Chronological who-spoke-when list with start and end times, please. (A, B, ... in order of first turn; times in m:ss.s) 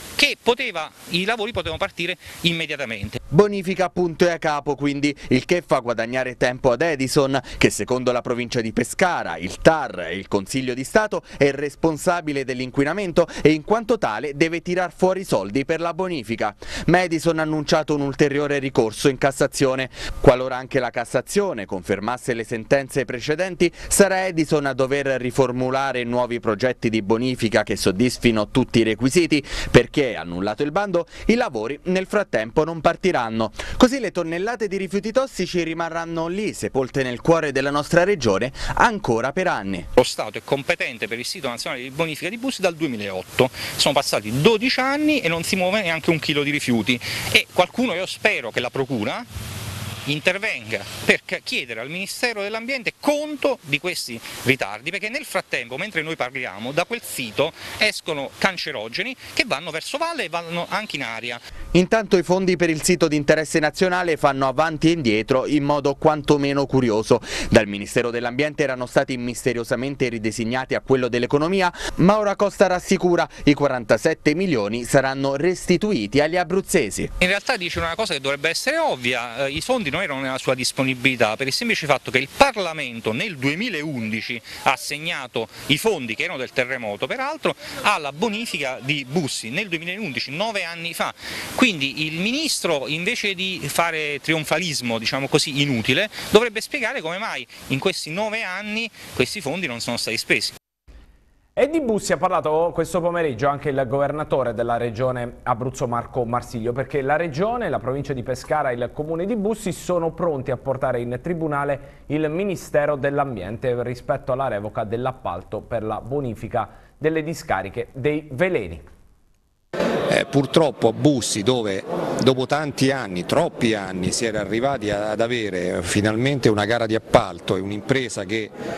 0:00.2-0:03.2 A
0:03.3-0:39.9 B
0:40.0-0:49.3 A
0:50.0-1:01.4 A
1:01.7-1:17.1 B
1:17.2-1:40.5 A
1:41.6-1:58.8 C
2:00.1-2:08.6 D